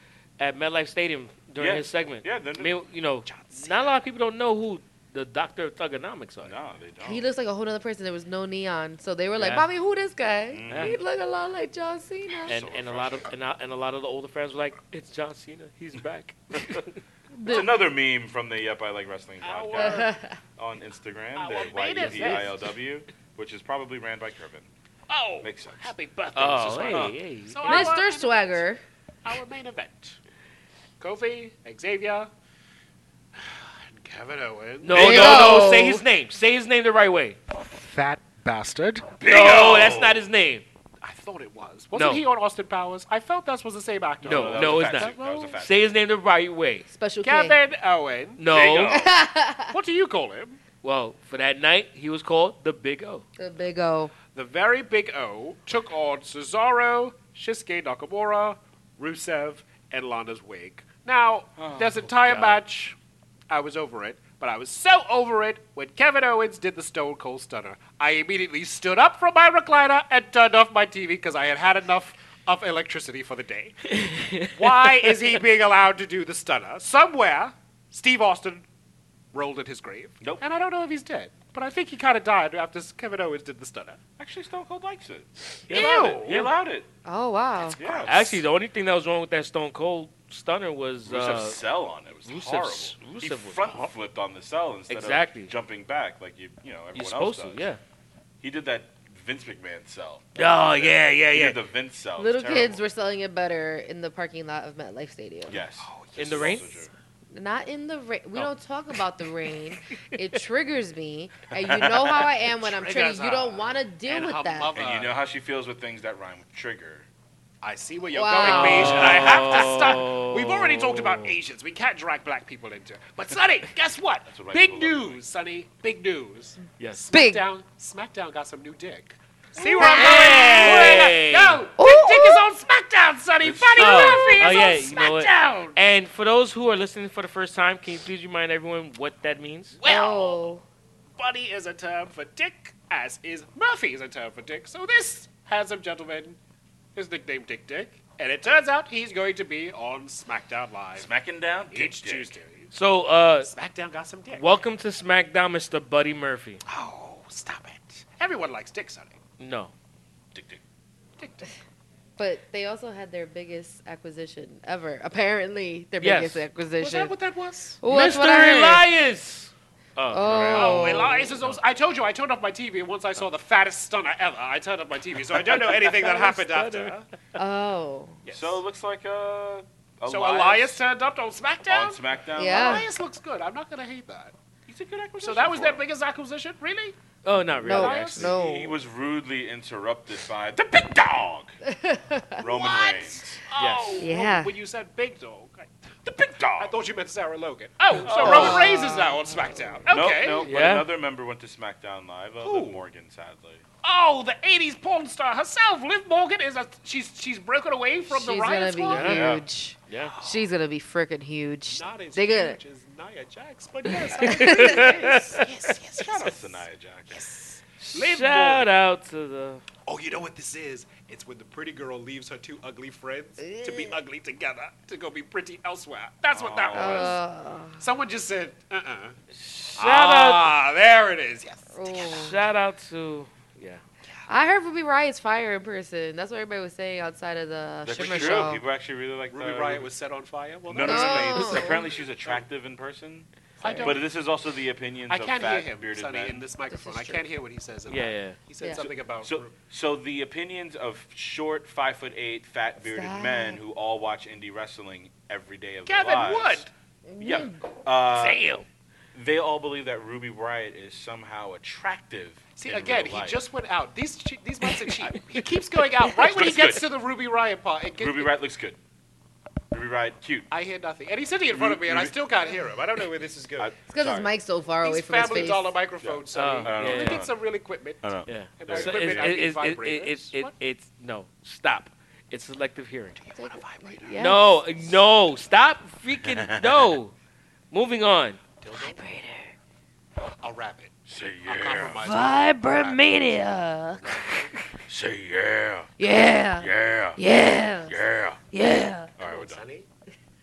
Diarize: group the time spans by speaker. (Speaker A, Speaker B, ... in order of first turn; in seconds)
Speaker A: 0.4-6.5, 9.4-9.7, 10.7-11.0, 12.5-17.0, 22.0-22.5, 26.4-27.9, 34.8-37.4, 39.2-40.6, 41.9-42.2, 44.2-46.9, 48.4-49.0, 50.8-53.2, 62.1-62.6, 73.9-75.1, 85.7-86.5, 88.1-91.6, 92.2-93.9, 94.9-95.5, 97.0-97.8, 100.4-101.6, 106.2-106.8, 118.4-121.4, 129.8-131.7, 133.8-139.8, 152.7-153.5, 154.3-156.6, 159.4-159.7, 166.0-166.4, 167.9-171.5, 175.8-176.9, 187.2-188.3, 193.6-194.1, 200.4-200.9, 208.9-209.3, 209.9-210.2, 214.2-215.5, 217.8-219.6, 229.3-230.5, 231.9-233.8, 238.0-238.5, 247.9-248.4, 258.2-258.6, 276.3-277.2, 278.3-283.2, 284.2-287.1, 287.7-288.4
Speaker B: 1.6-2.7, 6.4-7.2, 10.5-11.0, 12.4-13.3, 17.4-24.7, 25.4-25.9, 26.9-27.2, 39.3-40.3, 44.2-45.9, 48.5-49.2, 61.6-62.1, 84.2-86.9, 87.7-88.4, 91.1-97.7, 98.4-102.8, 105.5-106.9, 111.5-112.3, 114.8-117.1, 124.3-125.2, 133.4-134.1, 150.9-152.3, 160.3-160.6, 170.2-170.9, 178.3-180.8, 181.7-182.9, 184.7-185.8, 188.2-191.5, 192.4-193.4, 196.1-196.8, 198.0-198.8, 199.9-203.6, 209.0-209.4, 216.0-217.2, 226.3-227.2, 237.8-239.9, 240.7-243.3, 243.8-246.4, 248.8-256.7, 257.2-258.4, 259.1-263.4, 266.2-266.9, 268.0-268.8, 269.7-270.5, 271.5-272.1, 273.6-274.3, 276.0-277.4, 278.0-279.4, 286.2-286.9, 291.1-292.1, 294.9-295.9, 296.6-297.2, 297.9-298.4, 299.2-299.6
Speaker C: 3.3-3.9, 19.4-20.1, 21.4-22.6, 25.1-28.7, 29.2-30.2, 31.0-32.3, 33.4-35.9, 37.5-40.0, 41.0-45.6, 47.2-48.8, 49.7-50.6, 54.4-63.0, 63.5-73.9, 74.5-78.7, 79.3-84.0, 85.7-86.4, 105.8-106.5, 112.5-115.2, 117.6-135.8, 139.8-140.4, 141.2-146.4, 146.9-151.1, 151.7-152.7, 153.4-154.5, 156.7-159.2, 161.2-161.5, 166.8-167.8, 170.5-177.1, 178.2-178.6, 180.1-184.3, 185.2-186.9, 187.6-188.4, 192.5-195.7, 196.5-200.5, 202.4-202.8, 203.8-209.3, 210.1-210.5, 211.7-218.7, 219.9-227.2, 227.8-229.2, 229.8-232.3, 239.3-242.4, 243.6-244.1, 245.1-249.5, 255.9-256.7, 262.6-268.4, 270.5-273.7, 274.8-278.1, 278.6-280.5, 283.2-284.4, 288.6-289.0, 290.4-290.9, 291.4-293.0, 294.0-294.6, 299.2-299.9
Speaker D: 7.0-12.6, 17.4-17.8, 19.8-20.4, 27.6-28.8, 34.9-36.0, 46.9-47.6, 48.9-49.8, 53.4-54.1, 87.1-87.8, 102.2-105.6, 107.3-114.7, 118.1-119.3, 127.1-127.4, 129.6-131.1, 131.8-132.4, 134.0-134.7, 139.9-140.6, 162.2-167.1, 167.8-168.9, 170.1-171.3, 177.4-178.2, 182.3-182.9, 187.6-188.8, 191.7-192.6, 194.0-194.5, 198.1-199.8, 208.1-212.6, 214.1-215.0, 223.4-223.9, 226.7-227.8, 231.7-232.4, 234.3-238.6, 240.8-241.9, 243.6-243.9, 246.7-247.2, 252.8-253.6, 257.1-257.6, 273.9-275.8, 283.4-284.6, 288.7-289.5, 292.0-294.2, 296.0-298.0, 298.5-299.1